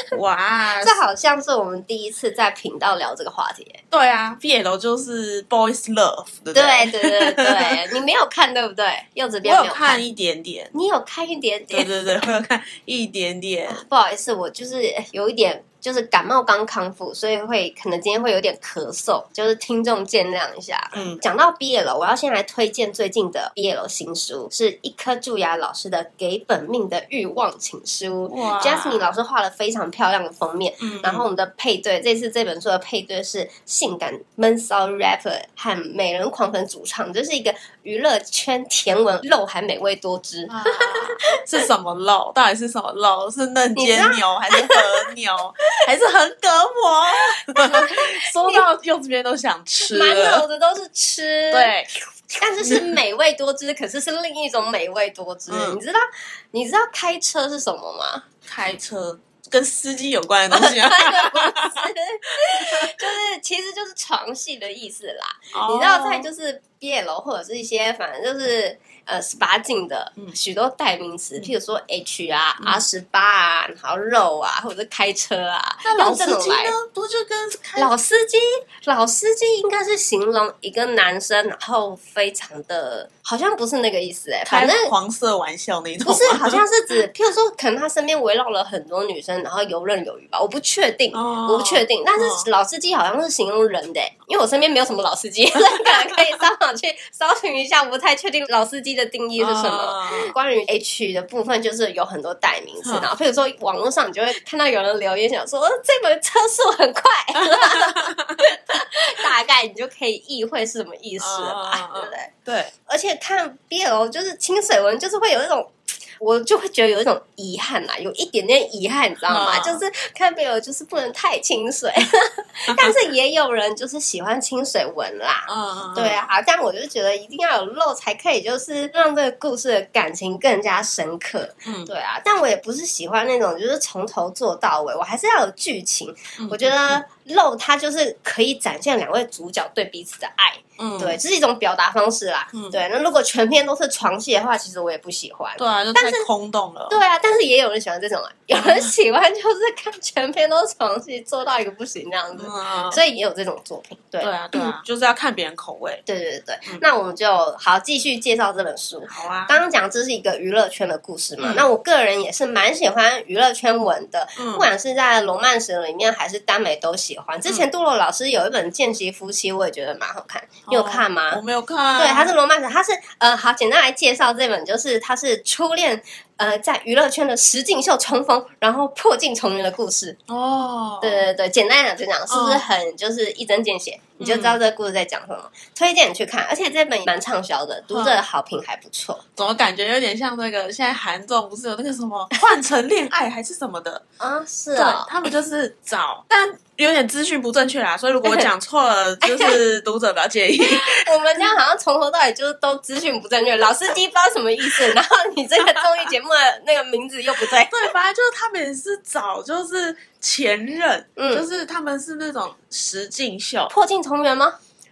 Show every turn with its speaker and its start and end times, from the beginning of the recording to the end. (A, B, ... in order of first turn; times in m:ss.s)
0:00.1-0:01.0 A
0:00.8-0:03.8 B
0:03.9-0:07.8 A
0:06.5-0:10.0 B
0:09.4-0:10.7 A
0:10.7-0:11.9 B
0:11.7-0:13.8 A
0:13.7-0:41.4 B
0:20.9-0:21.2 A
0:28.3-0:29.1 A
0:30.8-0:31.2 A
0:40.5-0:50.4 A
0:43.8-0:44.8 B
0:47.5-0:48.6 B
0:49.8-0:51.7 B
0:51.5-0:51.9 A
0:52.4-0:58.2 B
0:52.6-0:53.0 A
0:55.5-0:55.8 A
0:58.4-1:03.1 A
1:00.5-1:16.7 B
1:05.5-1:06.3 A
1:12.6-1:12.8 A
1:15.8-1:17.9 A
1:17.8-1:24.9 B
1:24.5-1:26.6 A
1:26.0-1:52.3 B
1:31.1-1:32.4 A
1:35.7-1:36.2 A
1:39.4-1:40.3 A
1:42.8-1:43.1 A
1:47.4-1:48.4 A
1:51.2-1:52.7 A
1:52.8-2:26.3 B
1:59.3-1:59.8 A
2:02.7-2:03.0 A
2:05.5-2:06.3 A
2:11.6-2:11.9 A
2:16.4-2:17.0 A
2:20.8-2:21.2 A
2:22.5-2:22.8 A
2:25.6-2:27.0 A
2:26.9-2:34.8 B
2:28.5-2:28.9 A
2:32.3-2:33.0 A
2:34.2-2:36.0 A
2:36.0-2:51.4 B
2:39.1-2:39.6 A
2:41.4-2:41.7 A
2:44.4-2:44.7 A
2:50.7-2:52.4 A
2:52.0-3:00.2 B
3:00.3-3:01.2 A
3:01.0-3:09.2 B
3:02.3-3:02.6 A
3:04.2-3:04.6 A
3:07.9-3:08.2 A
3:09.4-3:14.0 A
3:14.2-3:15.1 B
3:14.7-3:21.0 A
3:19.2-3:19.6 B
3:20.6-3:27.9 B
3:27.4-3:33.7 A
3:31.2-3:31.4 B
3:33.7-3:34.6 B